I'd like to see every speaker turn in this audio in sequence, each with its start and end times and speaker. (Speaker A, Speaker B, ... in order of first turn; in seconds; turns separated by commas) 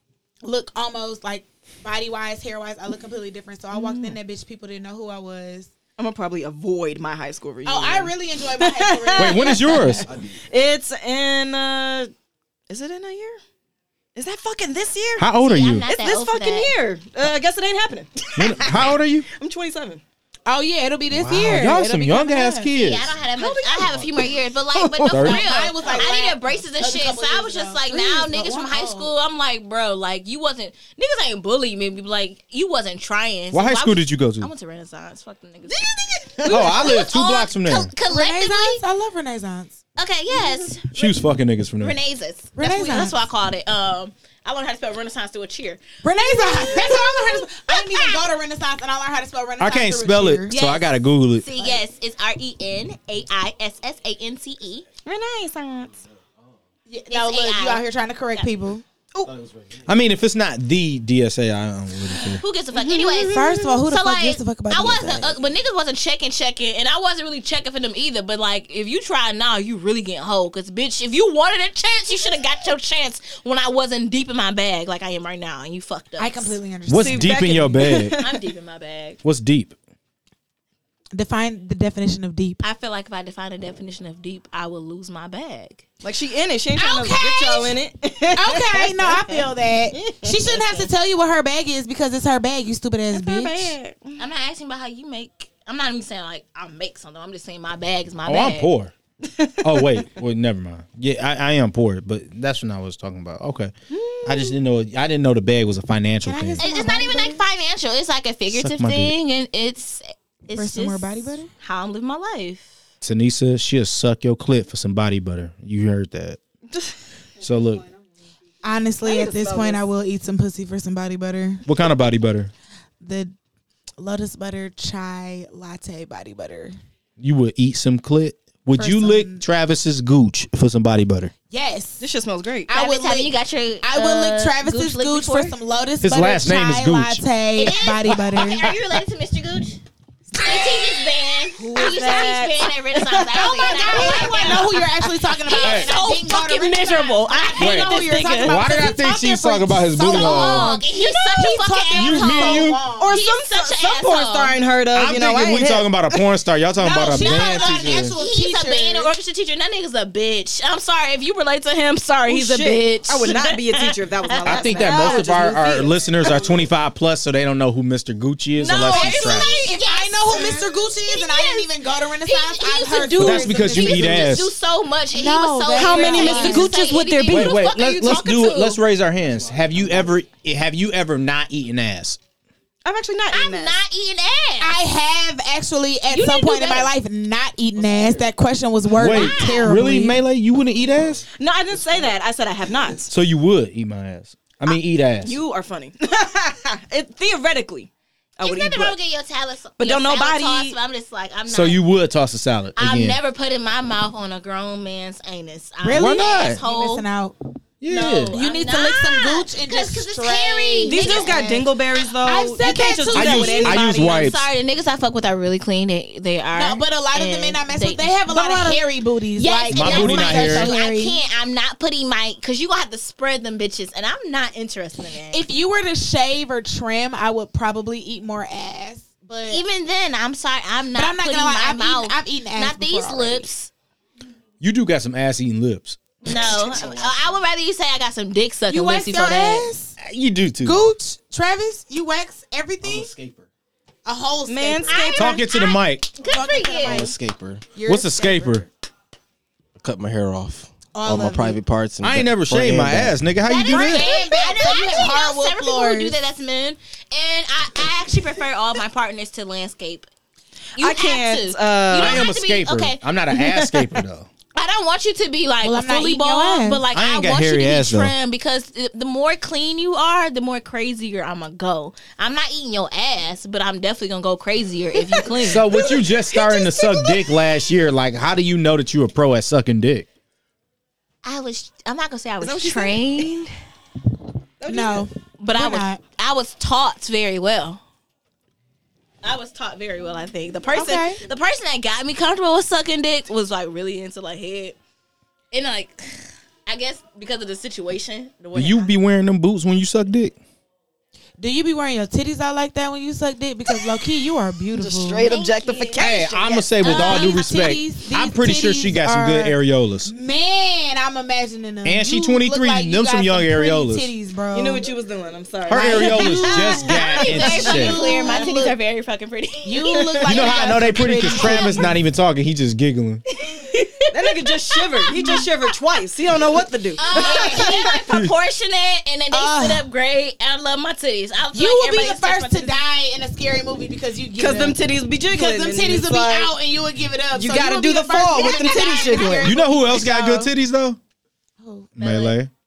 Speaker A: 0.4-5.7, Speaker B: 3.7-4.2, Speaker B: 6.0-12.1, Speaker A: 7.7-9.9, Speaker C: 9.2-10.2, Speaker B: 12.7-13.4, Speaker B: 14.2-15.3, Speaker C: 15.2-15.8, Speaker D: 15.4-16.7, Speaker B: 15.8-20.0, Speaker C: 18.4-19.3, Speaker A: 20.5-22.7, Speaker C: 21.1-23.1, Speaker D: 22.7-35.9, Speaker B: 23.4-26.0, Speaker C: 25.1-25.4, Speaker A: 25.2-29.1, Speaker C: 33.5-34.5, Speaker B: 35.7-37.0, Speaker D: 36.4-38.8, Speaker C: 36.5-37.9, Speaker A: 38.1-39.8, Speaker D: 40.0-41.2, Speaker C: 40.9-42.0, Speaker D: 41.8-48.3, Speaker A: 42.6-43.2, Speaker A: 46.0-50.5, Speaker C: 49.6-51.5, Speaker D: 50.5-54.9, Speaker B: 55.0-56.0, Speaker A: 56.9-58.8, Speaker D: 57.1-57.8, Speaker C: 59.4-62.4, Speaker D: 62.2-76.6, Speaker B: 62.7-63.7, Speaker A: 63.3-65.3, Speaker A: 76.2-77.8, Speaker C: 76.9-78.2, Speaker B: 77.0-78.5, Speaker D: 78.2-79.2, Speaker C: 79.2-79.8, Speaker A: 81.1-82.6, Speaker D: 82.6-85.8, Speaker B: 86.0-89.4, Speaker A: 86.8-87.8, Speaker A: 88.3-93.7, Speaker B: 90.0-90.9, Speaker B: 93.1-94.2, Speaker D: 94.2-98.7, Speaker C: 98.3-98.9, Speaker B: 99.2-100.0, Speaker C: 99.6-103.7, Speaker B: 103.9-104.6, Speaker C: 104.2-106.6, Speaker A: 106.2-107.4, Speaker D: 106.6-112.7, Speaker C: 108.5-109.1, Speaker A: 110.5-111.5, Speaker C: 113.0-116.4, Speaker C: 117.4-117.9, Speaker A: 118.6-121.7, Speaker B: 119.0-119.8, Speaker C: 121.7-122.5, Speaker A: 123.0-123.3, Speaker A: 124.0-126.8, Speaker C: 127.2-131.3, Speaker A: 128.8-129.4, Speaker A: 131.5-132.0, Speaker B: 132.0-132.7, Speaker A: 132.7-138.7, Speaker D: 132.7-135.5, Speaker C: 136.0-137.2, Speaker D: 137.6-139.8, Speaker C: 138.2-138.7, Speaker D: 140.3-148.6, Speaker A: 140.4-140.8, Speaker B: 141.6-144.8, Speaker A: 143.3-153.2, Speaker C: 145.5-146.0, Speaker C: 147.6-150.7, Speaker D: 150.0-154.6, Speaker C: 151.9-152.8, Speaker B: 153.0-156.2, Speaker C: 154.9-158.2, Speaker A: 156.8-159.1, Speaker D: 157.1-165.0, Speaker B: 162.3-166.5, Speaker C: 164.4-169.5, Speaker D: 168.6-178.8, Speaker B: 168.7-169.4, Speaker A: 168.9-174.4, Speaker C: 173.2-174.5, Speaker A: 175.1-176.7, Speaker B: 175.8-177.8, Speaker C: 177.3-182.2, Speaker B: 182.8-183.8, Speaker D: 183.3-184.8, Speaker A: 184.6-190.2, Speaker D: 186.1-186.9, Speaker C: 188.9-191.2, Speaker D: 189.0-189.7, Speaker B: 191.4-193.1, Speaker C: 193.1-195.4, Speaker B: 194.7-199.0, Speaker D: 198.4-201.8, Speaker B: 199.8-200.8, Speaker C: 201.5-203.2, Speaker D: 202.8-207.1, Speaker A: 205.8-207.4, Speaker C: 205.9-206.6, Speaker C: 207.8-208.4, Speaker D: 207.9-211.7, Speaker A: 208.3-211.7, Speaker B: 210.8-214.3, Speaker A: 212.2-214.0, Speaker C: 213.1-214.5, Speaker D: 213.7-218.8, Speaker A: 216.5-221.2, Speaker D: 219.4-225.4, Speaker C: 219.7-220.7, Speaker A: 225.3-229.6, Speaker D: 229.5-233.7, Speaker A: 230.9-233.5, Speaker C: 234.6-237.1, Speaker D: 236.2-239.7, Speaker A: 238.7-240.0, Speaker C: 240.0-240.8, Speaker A: 240.6-243.1, Speaker A: 244.1-245.4, Speaker B: 244.5-245.3, Speaker D: 244.9-247.2, Speaker C: 245.2-246.2, Speaker A: 246.2-247.2, Speaker E: 246.9-247.6, Speaker A: 247.8-248.7, Speaker C: 247.8-248.7, Speaker E: 249.8-253.2, Speaker A: 250.9-251.6, Speaker C: 252.0-254.1, Speaker D: 253.5-260.1, Speaker A: 253.6-256.2, Speaker D: 260.8-263.0, Speaker B: 260.8-262.3, Speaker C: 261.9-264.3, Speaker B: 263.3-264.0, Speaker D: 264.6-275.7, Speaker A: 265.6-266.8, Speaker C: 266.9-268.1, Speaker B: 274.9-277.2, Speaker C: 275.4-280.1, Speaker D: 281.2-283.5, Speaker B: 282.4-283.4, Speaker B: 284.6-285.1, Speaker A: 284.7-286.0, Speaker D: 285.4-287.8, Speaker D: 289.2-294.8, Speaker A: 290.7-291.2, Speaker D: 295.5-298.9, Speaker C: 298.5-300.4, Speaker A: 301.4-305.3, Speaker B: 304.8-306.7, Speaker D: 305.2-306.0, Speaker C: 306.0-310.1, Speaker A: 306.8-314.9, Speaker D: 306.8-307.4, Speaker C: 311.8-314.1, Speaker B: 314.5-318.5, Speaker C: 315.7-318.0, Speaker A: 315.7-318.8, Speaker D: 317.1-320.0, Speaker A: 319.6-321.9, Speaker B: 319.9-320.6, Speaker C: 320.2-323.2, Speaker B: 321.3-321.8, Speaker D: 323.4-325.5, Speaker B: 324.1-328.0, Speaker D: 327.0-332.8, Speaker A: 327.1-327.9, Speaker A: 329.3-329.9, Speaker A: 331.5-340.5, Speaker B: 334.4-336.5, Speaker B: 337.3-339.6, Speaker C: 339.4-341.0, Speaker A: 341.6-342.4, Speaker C: 342.0-342.5